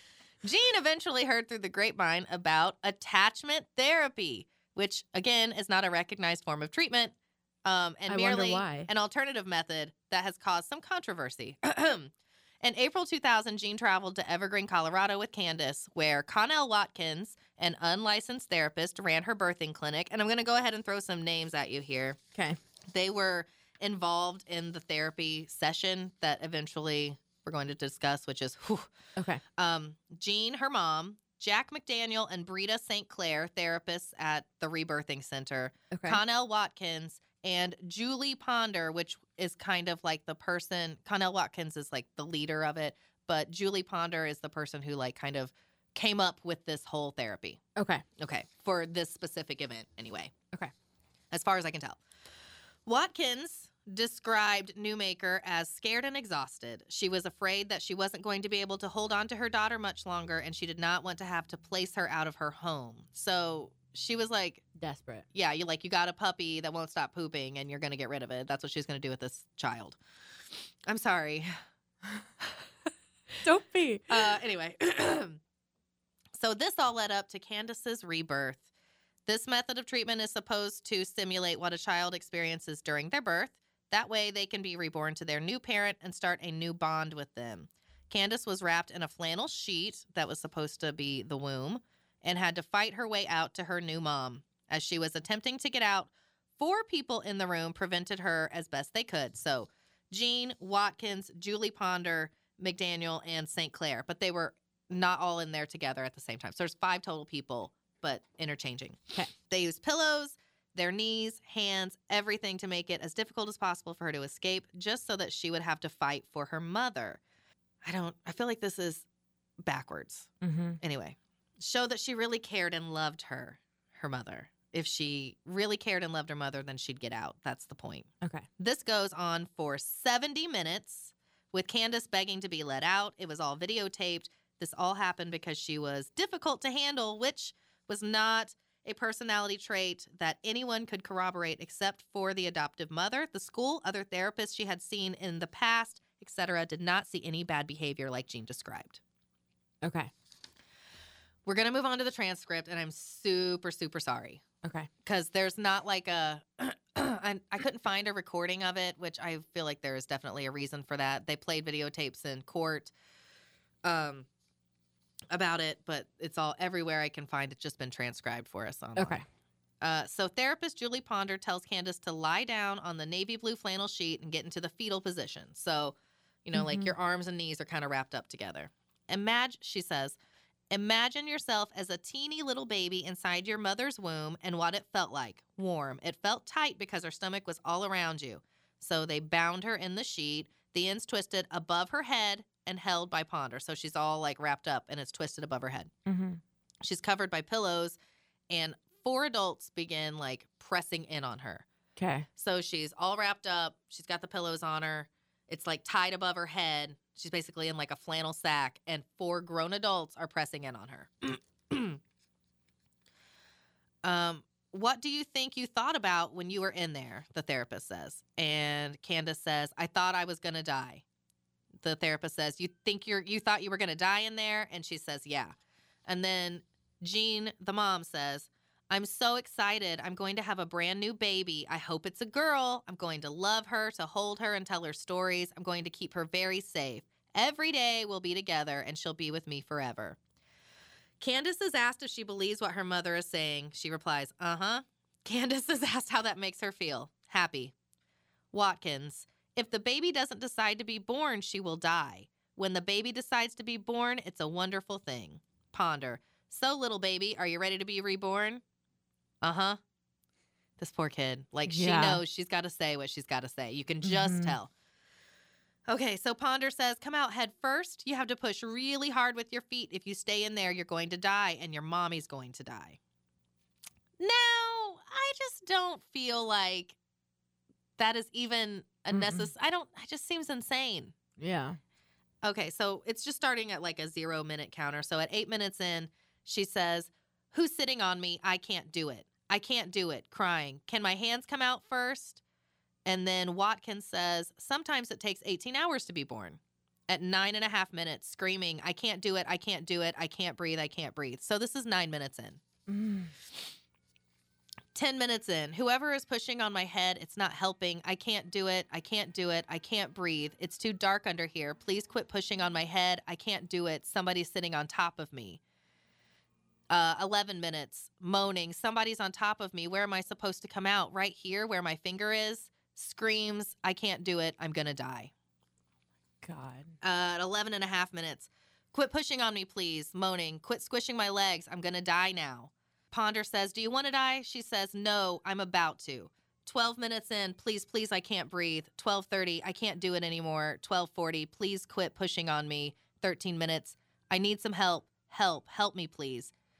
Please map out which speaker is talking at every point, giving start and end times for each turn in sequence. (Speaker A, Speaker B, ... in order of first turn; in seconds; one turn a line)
Speaker A: 0.4-22.2
Speaker B: 8.1-8.9
Speaker A: 22.9-28.9
Speaker B: 29.2-29.4
Speaker A: 29.6-47.6
Speaker B: 35.9-36.2
Speaker B: 47.8-48.0
Speaker A: 48.2-50.3
Speaker A: 51.3-52.0
Speaker A: 52.9-64.6
Speaker B: 64.8-65.2
Speaker A: 65.3-70.0
Speaker A: 70.8-71.5
Speaker B: 73.4-74.2
Speaker A: 74.1-75.4
Speaker A: 76.3-78.6
Speaker A: 79.2-117.2
Speaker A: 117.8-119.0
Speaker A: 119.6-149.0
Speaker B: 120.4-120.8
Speaker B: 149.8-150.1
Speaker A: 151.4-154.4
Speaker B: 154.6-154.9
Speaker A: 155.0-162.9
Speaker A: 163.8-164.3
Speaker A: 165.3-169.2
Speaker B: 168.9-169.2
Speaker A: 169.8-180.2
Speaker B: 176.5-176.9
Speaker A: 180.7-195.9
Speaker B: 196.1-196.4
Speaker A: 196.8-198.0
Speaker A: 198.5-201.6
Speaker B: 202.0-202.3
Speaker A: 202.3-212.0
Speaker A: 214.0-221.0
Speaker A: 221.8-225.5
Speaker A: 226.1-240.2
Speaker A: 241.2-247.7
Speaker A: 248.5-258.6
Speaker A: 259.4-259.8
Speaker A: 260.8-264.7
Speaker B: 261.7-262.2
Speaker B: 264.0-264.6
Speaker A: 265.9-273.0
Speaker A: 274.2-276.9
Speaker A: 278.0-281.1
Speaker B: 279.1-279.5
Speaker B: 281.4-281.8
Speaker A: 282.4-292.4
Speaker A: 293.0-302.6
Speaker B: 302.9-303.3
Speaker A: 304.9-315.6
Speaker A: 316.9-325.3
Speaker B: 326.4-326.9
Speaker A: 327.0-346.5